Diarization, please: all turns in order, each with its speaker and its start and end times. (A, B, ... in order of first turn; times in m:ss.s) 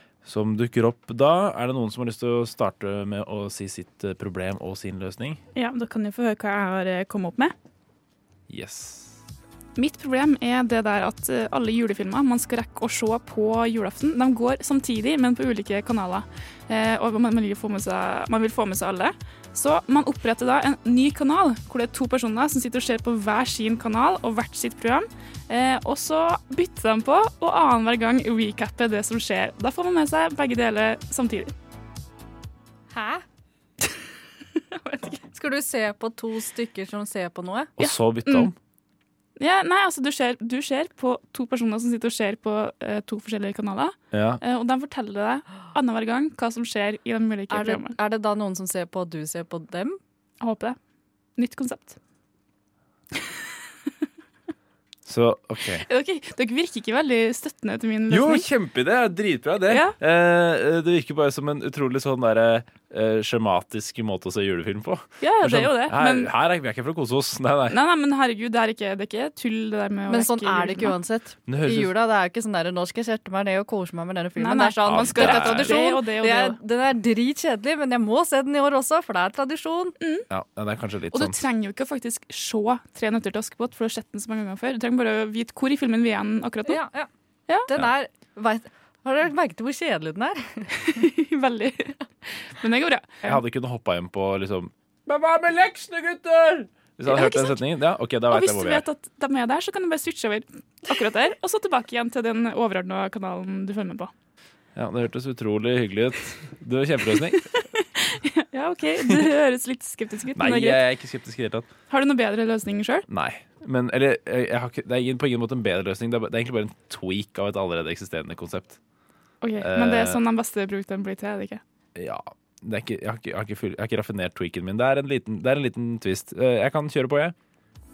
0:00.2-0:05.4 A
0:05.5-0:07.5 B
0:08.5-0:09.2 A
0:09.8-0:31.5 B
0:32.9-0:33.2 C
0:34.8-0:35.2 B
0:35.3-0:37.7 C
0:37.8-0:38.5 A
0:37.8-0:38.5 B
0:39.4-0:48.0 B
0:44.1-0:44.4 A
0:47.5-0:50.0 C
0:50.4-0:50.8 B
0:51.4-0:52.0 B
0:55.0-0:55.8 A
0:55.8-0:58.5 B
0:58.1-1:07.8 A
0:59.6-1:00.0 B
1:05.2-1:06.3 B
1:07.7-1:11.0 B
1:10.1-1:20.0 C
1:11.4-1:11.9 A
1:14.4-1:16.6 B
1:14.8-1:15.8 A
1:20.0-1:20.2 B
1:20.3-1:21.4 A
1:21.1-1:26.8 B
1:26.6-1:27.1 C
1:27.6-1:30.7 C
1:30.8-1:32.0 B
1:32.6-1:33.4 B
1:33.2-1:38.8 A
1:37.0-1:37.6 B
1:38.2-1:44.1 B
1:44.8-1:47.4 A
1:47.6-1:50.8 B
1:50.4-1:51.6 A
1:51.9-1:53.0 B
1:53.1-1:58.8 A
1:59.4-2:01.6 B
1:59.6-2:00.2 A
2:02.0-2:07.3 A